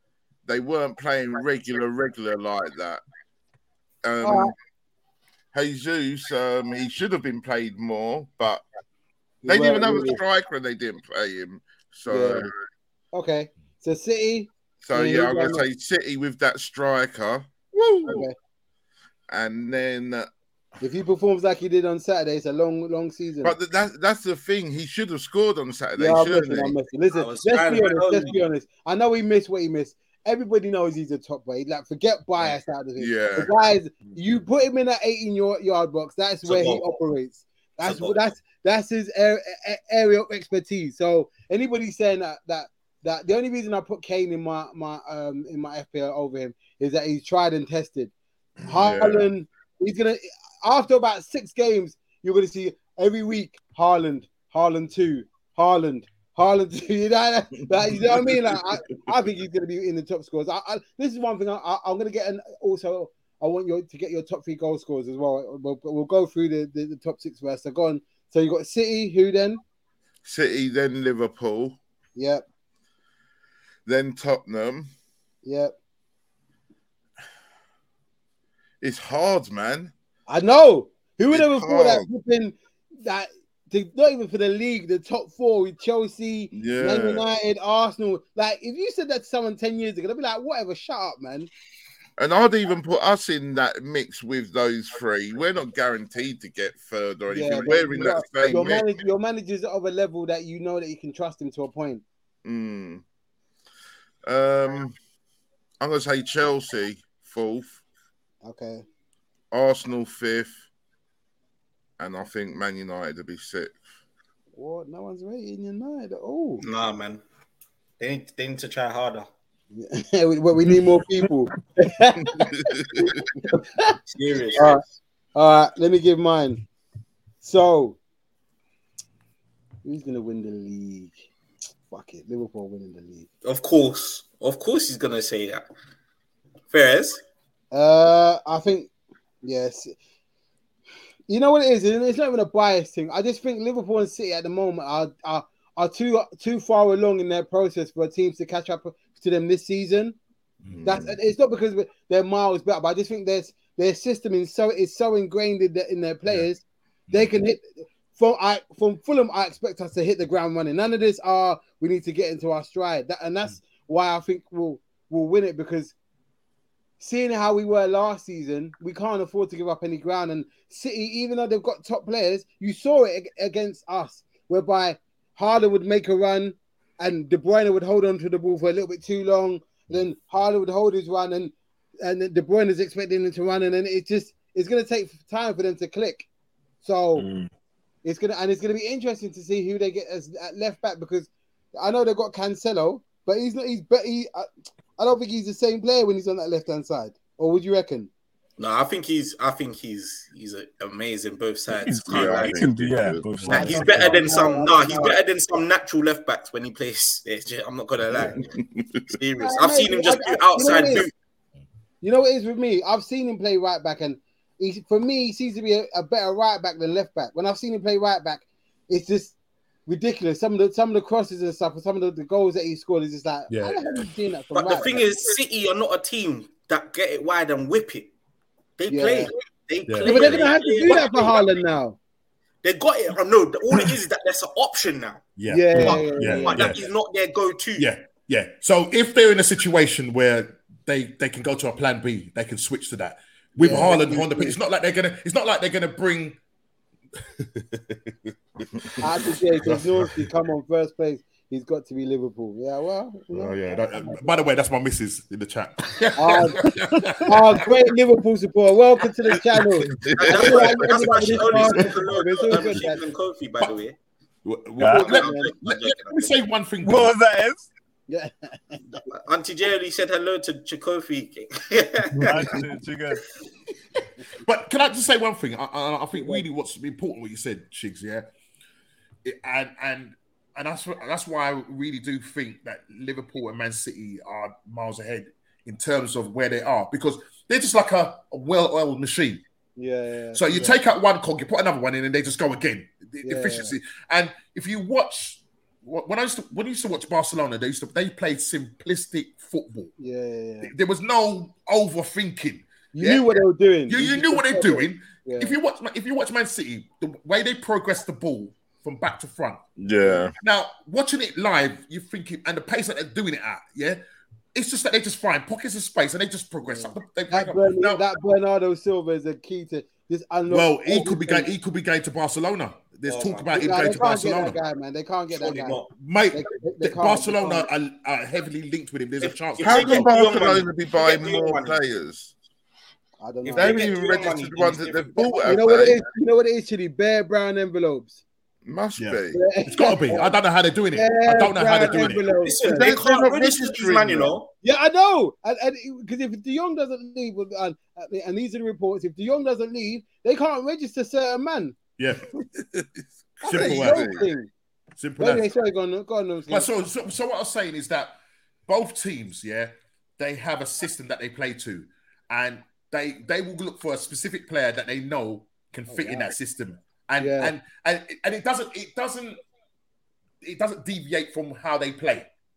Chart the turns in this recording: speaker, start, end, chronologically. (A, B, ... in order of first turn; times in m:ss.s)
0:00.4-0:03.0 A
0:04.0-0:04.5 A
0:04.2-0:04.5 B
0:05.5-0:08.6 A
0:09.4-0:10.2 B
0:09.4-0:12.5 A
0:12.1-0:12.5 B
0:13.1-0:15.6 B
0:14.8-0:18.3 A
0:18.0-0:18.3 B
0:19.3-0:20.3 A
0:20.8-0:23.5 B
0:23.4-0:26.8 A
0:26.0-0:48.1 B
0:27.1-0:28.4 C
0:33.0-0:33.5 A
0:36.4-0:36.9 C
0:37.8-0:38.2 C
0:48.7-1:09.6 B
0:48.7-0:49.3 A
1:10.2-1:11.8 A
1:12.2-1:12.4 B
1:13.8-1:14.9 A
1:15.4-1:15.7 B
1:18.8-1:19.9 A
1:20.3-1:31.5 B
1:21.3-1:22.1 A
1:26.5-1:27.2 A
1:32.2-1:38.9 A
1:37.3-1:42.0 B
1:42.4-1:43.0 A
1:44.2-1:44.9 A
1:45.8-1:47.8 A
1:48.4-1:48.8 B
1:49.5-1:50.5 A
1:52.0-1:53.8 A
1:54.6-1:56.6 B
1:56.6-1:57.2 C
1:58.0-1:59.3 C
1:59.7-2:04.0 B
2:02.2-2:03.2 A
2:04.1-2:04.8 C
2:04.5-2:04.8 B
2:05.3-2:06.6 B
2:07.4-2:08.0 B
2:09.8-2:11.2 B
2:11.9-2:13.3 B
2:13.4-2:15.6 C
2:16.7-2:17.2 C
2:17.7-2:18.9 B
2:19.4-2:19.9 B
2:21.3-2:30.1 B
2:30.7-2:31.1 A
2:30.8-2:45.9 B
2:47.0-3:06.3 B
3:06.8-3:07.3 B
3:07.2-3:07.5 D
3:08.0-3:18.1 B
3:18.6-3:22.7 C
3:21.7-3:24.2 D
3:22.1-3:23.4 A
3:23.4-3:23.6 E
3:23.4-3:28.4 C
3:23.5-3:25.2 B
3:28.3-3:29.1 A
3:29.1-3:31.1 C
3:29.4-3:31.1 B
3:32.0-3:39.3 B
3:39.8-3:45.0 B
3:43.5-3:44.1 E
3:44.5-3:48.1 C
3:48.8-3:51.5 C
3:48.9-3:49.3 B
3:49.9-3:50.4 E
3:50.0-3:52.0 B
3:52.6-3:57.9 C
3:55.4-3:56.8 E
3:55.5-3:56.7 B
3:57.8-4:06.4 E
4:03.6-4:04.6 B
4:07.4-4:08.1 E
4:08.7-4:09.0 E
4:09.0-4:14.2 B
4:09.6-4:10.2 E
4:13.3-4:17.4 E
4:16.2-4:23.0 B
4:19.8-4:20.8 A
4:20.2-4:24.0 C
4:21.0-4:22.1 E
4:24.4-4:27.2 E
4:24.8-4:25.1 D
4:24.9-4:26.3 C
4:25.0-4:25.5 B
4:26.8-4:27.7 D
4:28.1-4:29.0 B
4:29.1-4:32.6 C
4:32.2-4:33.2 D
4:34.4-4:38.2 E
4:39.2-4:49.4 E
4:49.8-4:50.8 B
4:50.3-4:59.9 E
4:53.2-4:53.7 B
5:00.0-5:00.7 B
5:00.6-5:03.3 E
5:02.9-5:05.5 B
5:03.9-5:09.6 E
5:09.8-5:10.3 A
5:10.4-5:14.0 E
5:14.5-5:18.0 E
5:16.6-5:21.5 B
5:20.5-5:24.6 E
5:23.0-5:23.8 C
5:23.5-5:25.8 B
5:25.3-5:25.9 C
5:26.0-5:30.0 E
5:26.3-5:27.7 B
5:29.2-5:31.8 C
5:29.6-5:32.3 A
5:33.2-5:33.8 B
5:33.4-5:35.6 C
5:33.5-5:36.0 A
5:35.4-5:38.2 B
5:38.6-5:39.4 A
5:39.0-5:42.3 E
5:39.3-5:40.3 B
5:40.9-5:42.9 B
5:42.4-5:44.5 C
5:42.6-5:44.4 A
5:44.6-5:51.8 B
5:52.0-5:52.9 E
5:53.4-5:54.2 A
5:53.4-5:54.5 B
5:53.4-5:54.1 E
5:55.0-5:55.4 E
5:55.2-5:56.7 B
5:56.5-5:58.1 E
5:58.7-6:09.4 E
6:05.9-6:06.3 B
6:07.2-6:07.5 B
6:10.4-6:12.3 E